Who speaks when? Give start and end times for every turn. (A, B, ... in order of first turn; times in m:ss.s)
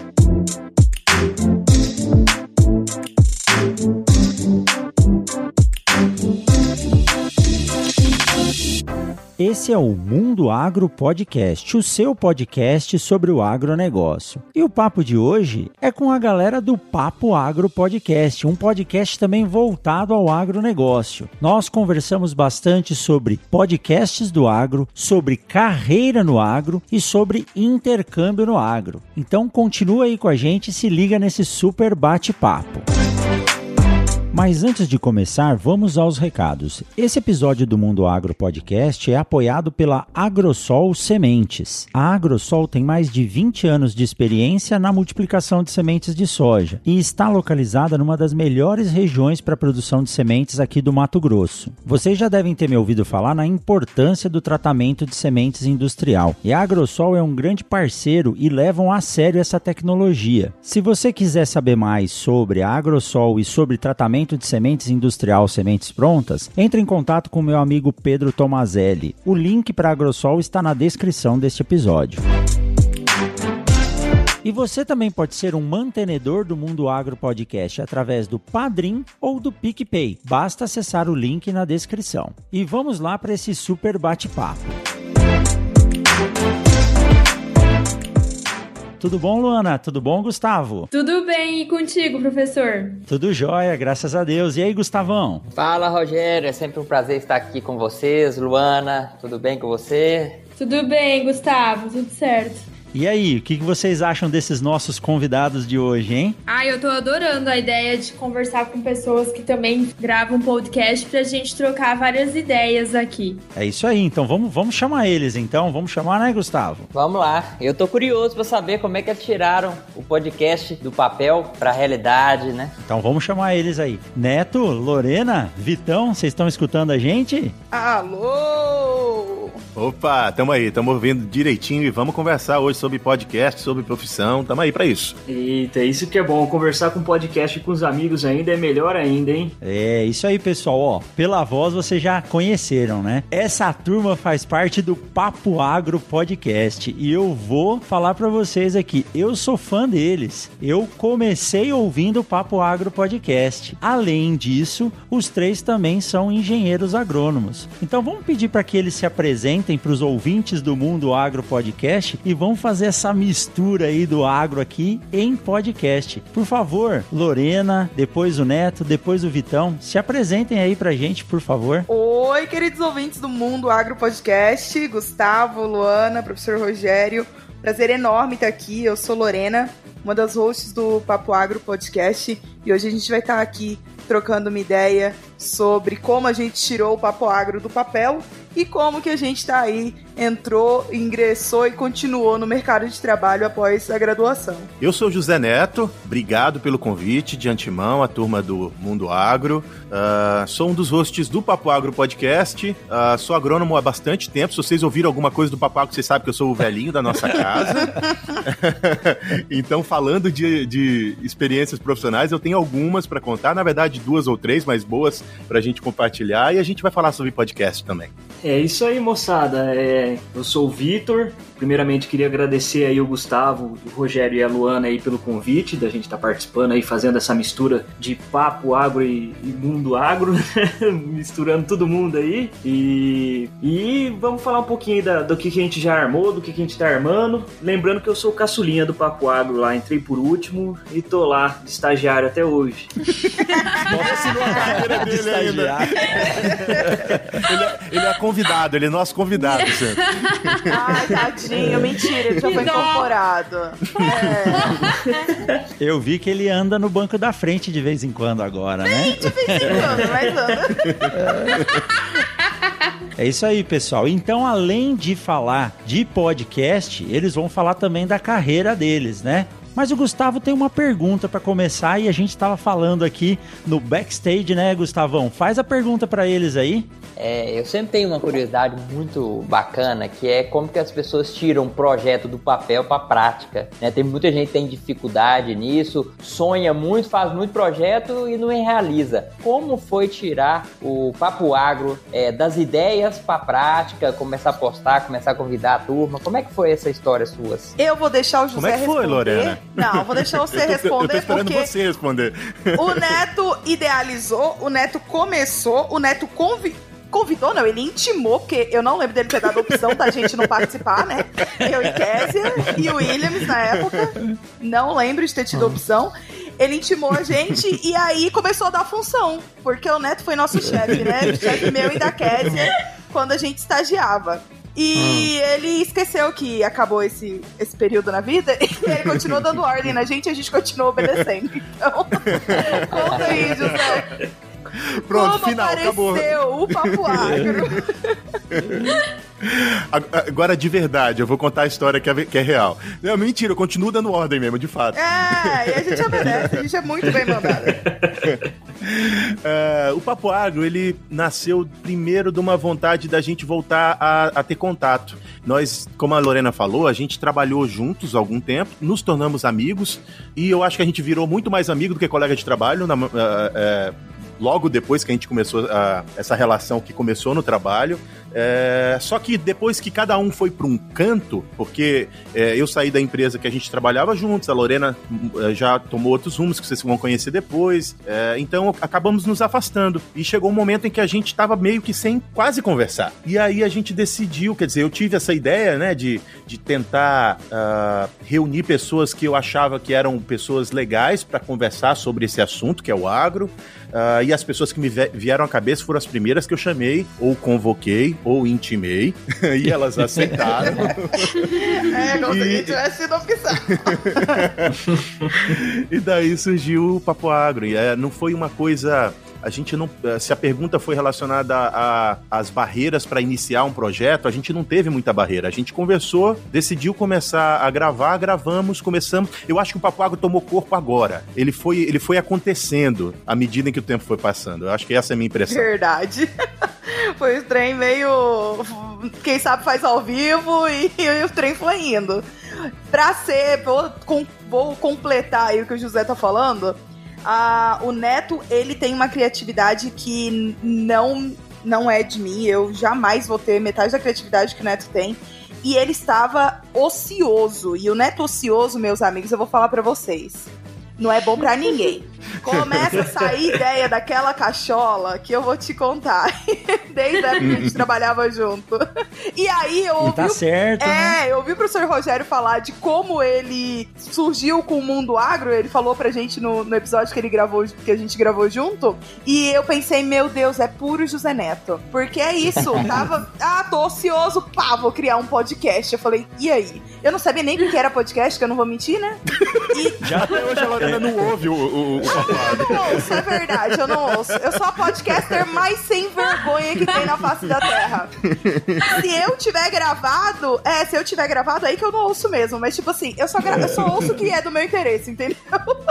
0:09.4-0:32.9 A
0:34.3-1:12.2 A
1:14.4-1:24.8 A
1:29.0-1:30.9 A
1:30.9-1:33.0 B
1:33.1-1:35.4 A
1:35.6-1:40.4 C
1:40.6-1:42.7 B
1:42.9-1:46.4 A
1:46.5-1:53.4 B
1:53.6-1:56.9 A
1:56.9-2:02.7 C
2:02.8-2:07.6 A
2:07.7-2:09.6 D
2:09.8-2:15.2 E
2:15.3-2:19.6 F
2:19.6-2:51.9 A
2:51.9-3:14.7 D
3:14.8-3:38.1 E
3:38.4-4:02.9 F
4:03.8-4:07.2 A
4:04.0-4:11.8 E
4:04.2-4:04.6 D
4:09.4-4:10.6 B
4:10.7-4:14.8 D
4:12.4-4:13.1 B
4:14.0-4:15.4 B
4:15.8-4:19.9 A
4:18.9-4:21.1 D
4:20.2-4:20.5 F
4:21.1-4:21.7 A
4:21.9-4:22.7 B
4:23.2-4:36.9 A
4:37.2-4:57.8 C
4:57.8-5:01.7 D
4:58.6-5:03.2 E
5:02.8-5:34.2 D
5:13.8-5:14.1 E
5:25.0-5:25.3 C
5:32.2-5:33.9 E
5:35.0-5:37.8 E
5:35.1-5:38.2 D
5:38.5-5:46.6 E
5:45.0-5:47.8 D
5:47.7-5:48.4 F
5:48.3-6:42.7 E
6:41.6-6:44.4 D
6:43.7-7:05.7 E
7:05.5-7:06.3 D
7:06.9-7:12.2 D
7:12.9-8:00.5 D
7:32.4-7:33.0 E
7:37.4-7:37.8 E
7:40.1-7:41.2 A
7:59.5-8:04.1 E
8:00.0-8:01.2 A
8:02.0-8:08.2 D
8:08.2-8:08.8 E
8:08.8-8:15.8 D
8:13.5-8:14.2 E